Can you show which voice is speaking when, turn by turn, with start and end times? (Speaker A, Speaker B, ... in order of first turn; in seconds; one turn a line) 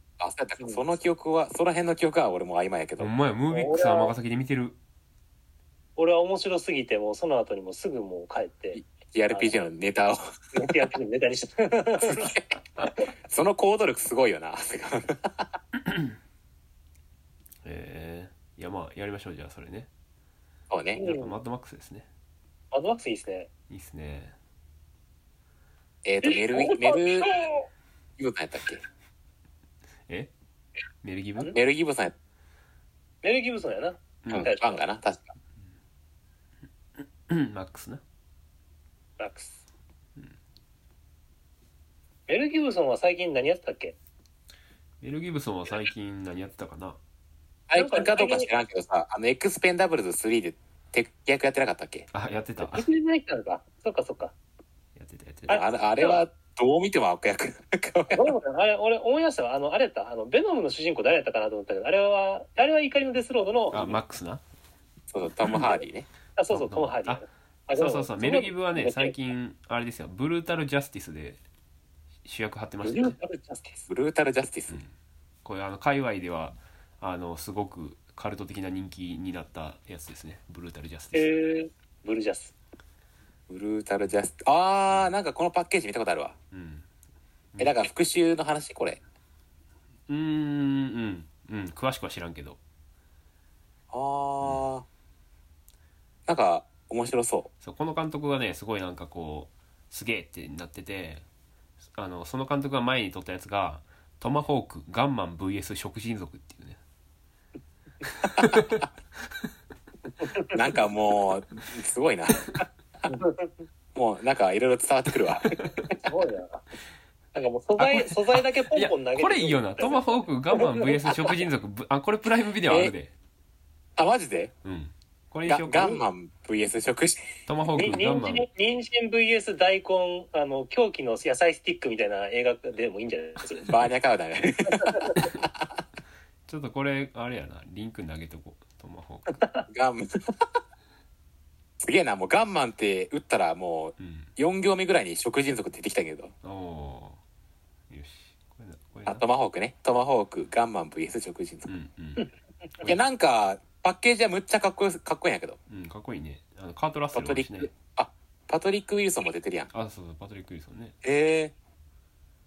Speaker A: 0.2-3.1
Speaker B: 0.6-0.8
Speaker C: 3.0-4.8
Speaker B: 3.5-4.1
Speaker B: 6.0-9.6
Speaker A: 8.8-10.2
Speaker B: 10.5-12.3
Speaker A: 12.0-12.5
Speaker A: 13.3-15.5
Speaker C: 15.8-16.1
Speaker C: 17.6-19.9
Speaker A: 20.7-21.0
Speaker B: 21.0-21.3
Speaker C: 21.0-22.1
Speaker B: 22.7-23.5
Speaker C: 23.7-24.4
Speaker A: 26.1-27.3
Speaker B: 26.2-27.7
Speaker A: 28.2-28.8
Speaker C: 31.0-31.6
Speaker A: 31.5-32.1
Speaker B: 33.2-34.8
Speaker C: 34.2-34.5
Speaker A: 34.3-35.3
Speaker C: 37.0-38.0
Speaker B: 39.2-39.6
Speaker B: 42.3-44.0
Speaker C: 45.0-47.0
Speaker A: 47.7-52.1
Speaker B: 47.8-48.5
Speaker C: 52.1-52.9
Speaker B: 52.6-54.3
Speaker C: 55.0-55.6
Speaker B: 55.5-56.2
Speaker A: 55.5-58.4
Speaker B: 58.1-64.0
Speaker C: 63.7-64.4
Speaker A: 65.1-66.1
Speaker B: 66.4-69.2
Speaker C: 66.5-71.4
Speaker C: 72.2-73.2
Speaker B: 72.8-73.9
Speaker A: 73.9-74.8
Speaker C: 75.5-81.3
Speaker B: 81.1-82.5
Speaker A: 83.5-86.3
Speaker C: 86.5-86.9
Speaker A: 87.6-89.0
Speaker C: 90.1-92.6
Speaker A: 93.9-94.8
Speaker A: 96.3-97.5
Speaker C: 97.6-101.2
Speaker C: 102.0-106.8
Speaker C: 108.1-108.9
Speaker B: 110.2-110.7
Speaker A: 110.5-112.6
Speaker B: 113.1-113.5
Speaker A: 114.0-116.0
Speaker C: 115.4-115.9
Speaker B: 116.0-116.6
Speaker B: 117.4-121.4
Speaker C: 117.8-123.1
Speaker A: 122.7-122.9
Speaker A: 124.0-124.5
Speaker C: 124.6-126.0
Speaker A: 125.5-127.2
Speaker C: 127.5-128.5
Speaker B: 127.7-133.8
Speaker A: 133.7-135.5
Speaker B: 134.8-135.2
Speaker C: 136.5-139.4
Speaker A: 139.7-140.5
Speaker A: 141.8-146.3
Speaker C: 144.0-144.3
Speaker C: 146.4-147.2
Speaker C: 147.9-149.2
Speaker A: 149.1-151.7
Speaker C: 151.7-152.3
Speaker A: 152.8-155.6
Speaker C: 155.7-157.7
Speaker A: 157.1-159.7
Speaker C: 159.7-161.0
Speaker A: 161.0-161.5